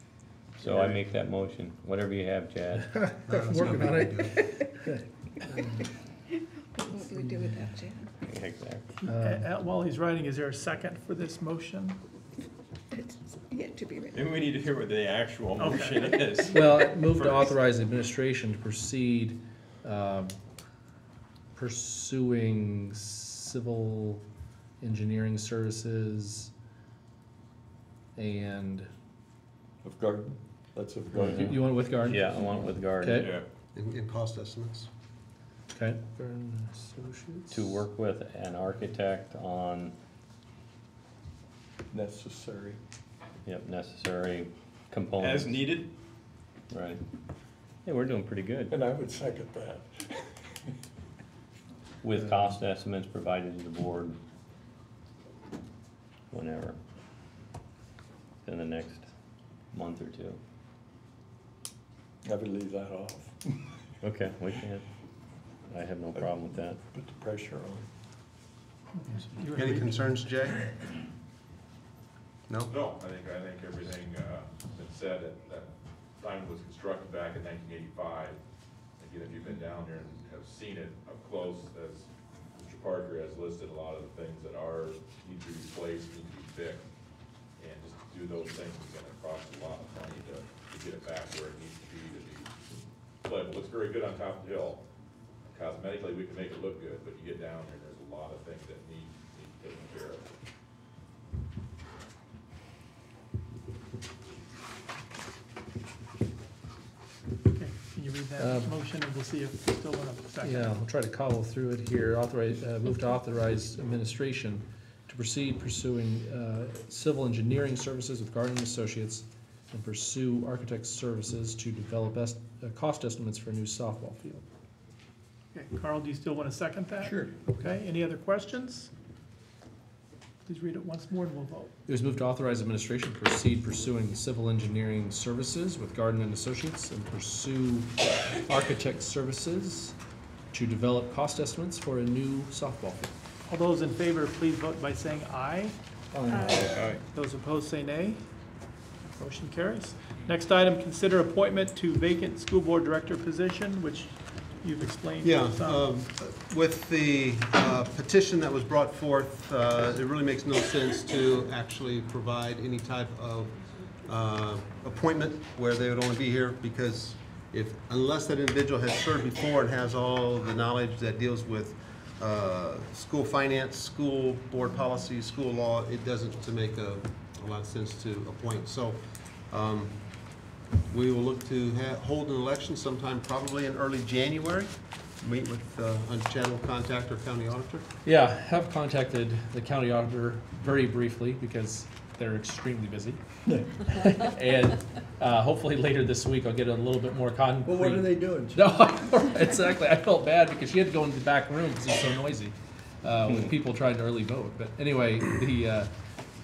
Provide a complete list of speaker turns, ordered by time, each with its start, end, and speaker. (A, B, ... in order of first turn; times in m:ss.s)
0:00.6-0:03.7 A
0:00.6-0:01.0 B
0:02.9-0:05.8 C
0:03.3-0:04.4 D
0:03.6-0:04.7 E
0:06.8-0:08.1 E
0:08.2-0:08.8 A
0:09.0-0:12.0 F
0:09.0-0:09.4 C
0:12.9-0:14.4 E
0:14.1-0:17.5 B
0:15.6-0:16.3 F
0:16.5-0:20.4 C
0:21.6-0:24.2 C
0:24.8-0:26.5 C
0:28.2-0:28.9 C
0:29.8-0:31.8 G
0:31.2-0:32.4 C
0:32.0-0:33.4 A
0:33.0-0:33.3 C
0:33.2-0:33.4 B
0:33.7-0:34.9 D
0:35.7-0:37.6 C
0:37.5-0:39.9 A
0:41.9-0:42.8 G
0:43.4-0:45.8 A
0:45.2-0:45.9 B
0:46.7-0:47.0 A
0:47.8-0:48.7 A
0:48.7-0:50.5 G
0:52.0-0:54.2 A
0:52.2-0:52.4 G
0:56.3-0:56.8 A
0:58.4-0:59.1 A
0:59.7-1:00.4 A
1:02.2-1:03.8 G
1:04.0-1:04.8 A
1:05.7-1:06.8 A
1:06.1-1:07.9 G
1:08.9-1:10.2 F
1:09.5-1:10.6 D
1:12.5-1:12.7 D
1:12.7-1:18.4 H
1:19.0-1:26.8 H
1:27.6-1:32.5 H
1:33.2-1:34.8 H
1:35.5-1:40.3 H
1:47.5-1:50.8 F
1:48.4-1:48.7 C
1:50.4-2:04.4 C
2:05.5-2:08.9 F
2:07.0-2:07.5 G
2:10.4-2:11.7 F
2:11.9-2:20.0 C
2:20.5-2:23.1 C
2:23.5-2:28.3 F
2:26.1-2:26.8 G
2:26.7-2:27.0 B
2:29.2-2:35.9 F
2:35.2-3:00.0 D
3:00.9-3:07.9 D
3:08.0-3:25.9 C
3:17.6-3:18.6 G
3:23.2-3:23.5 A